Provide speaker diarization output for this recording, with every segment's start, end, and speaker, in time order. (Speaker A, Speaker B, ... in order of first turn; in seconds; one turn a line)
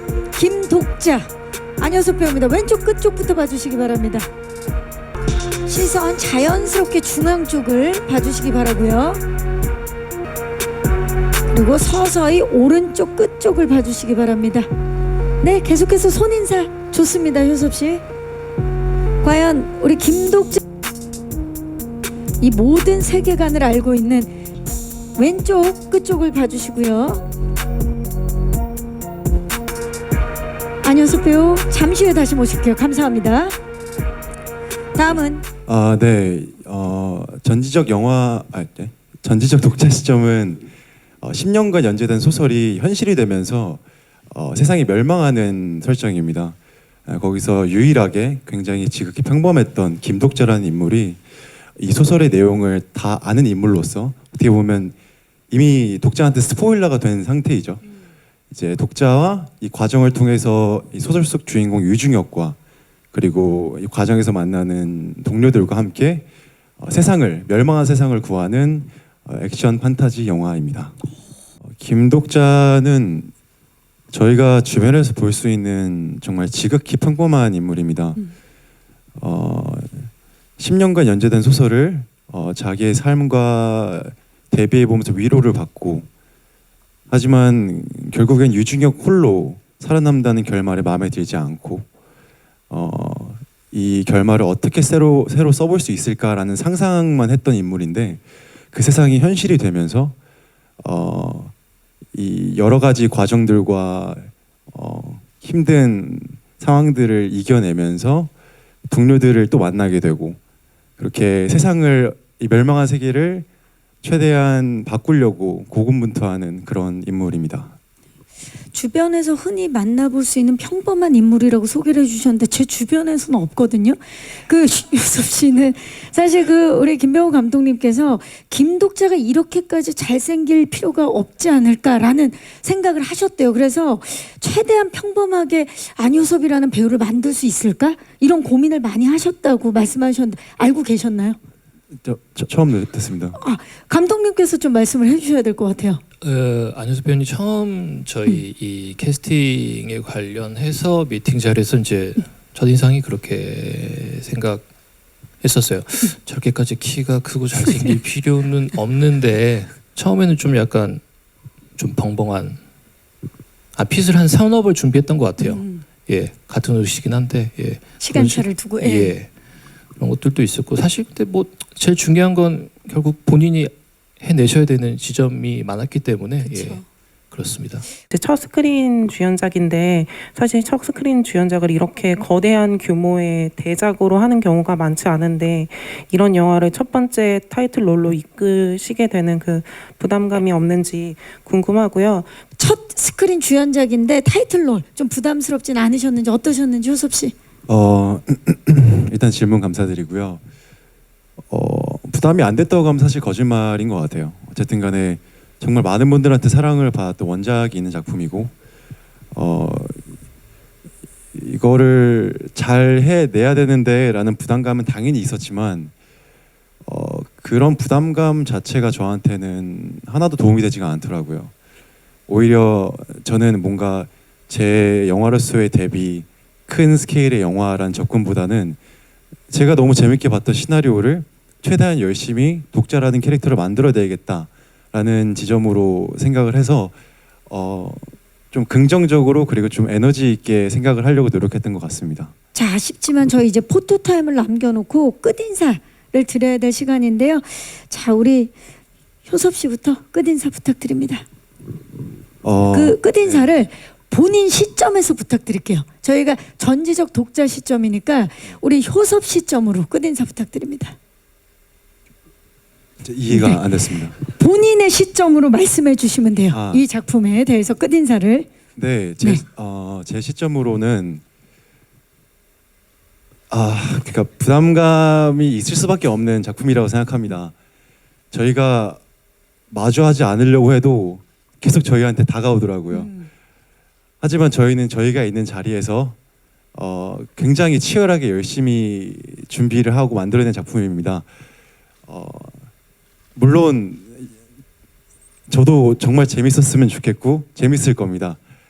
Speaker A: 0.3-4.3
Speaker A: 5.7-9.2
Speaker A: 11.5-14.7
Speaker A: 15.4-18.0
Speaker A: 19.2-20.6
Speaker A: 22.4-24.3
Speaker A: 25.2-27.2
Speaker A: 30.8-33.6
Speaker A: 35.0-35.5
Speaker B: 35.7-40.7
Speaker B: 41.2-46.6
Speaker B: 47.1-51.2
Speaker B: 51.8-55.0
Speaker B: 55.5-57.8
Speaker B: 58.5-62.6
Speaker B: 63.1-66.3
Speaker B: 66.8-71.0
Speaker B: 71.7-73.3
Speaker B: 74.1-78.2
Speaker B: 79.2-86.1
Speaker B: 87.1-91.9
Speaker B: 92.7-98.2
Speaker B: 98.7-100.2
Speaker B: 100.8-101.5
Speaker B: 102.1-108.3
Speaker B: 108.9-110.4
Speaker B: 111.0-113.5
Speaker B: 114.0-117.8
Speaker A: 118.7-141.4
Speaker B: 142.0-143.4
Speaker A: 143.4-146.0
Speaker C: 146.2-154.6
Speaker C: 155.4-161.0
Speaker C: 161.8-162.6
Speaker C: 163.8-169.3
Speaker A: 165.4-165.8
Speaker A: 168.0-169.2
Speaker C: 170.0-177.9
Speaker D: 178.1-192.4
Speaker A: 192.6-197.3
Speaker B: 197.7-200.4
Speaker B: 201.5-208.5
Speaker B: 209.3-210.0
Speaker B: 211.3-215.9
Speaker B: 216.8-221.5
Speaker B: 222.3-228.8
Speaker B: 229.5-236.9
Speaker B: 237.5-242.3
Speaker A: 242.5-248.5
Speaker A: 249.3-251.2
Speaker B: 252.4-253.5
Speaker A: 252.7-261.0
Speaker B: 263.0-264.2
Speaker A: 263.3-263.6
Speaker A: 264.2-268.5
Speaker B: 266.5-266.8
Speaker B: 268.8-271.2
Speaker B: 273.5-277.5
Speaker B: 278.3-279.0
Speaker B: 279.7-283.1
Speaker B: 284.2-286.2
Speaker B: 286.7-291.3
Speaker B: 292.1-292.6
Speaker B: 293.4-294.3
Speaker B: 295.5-298.4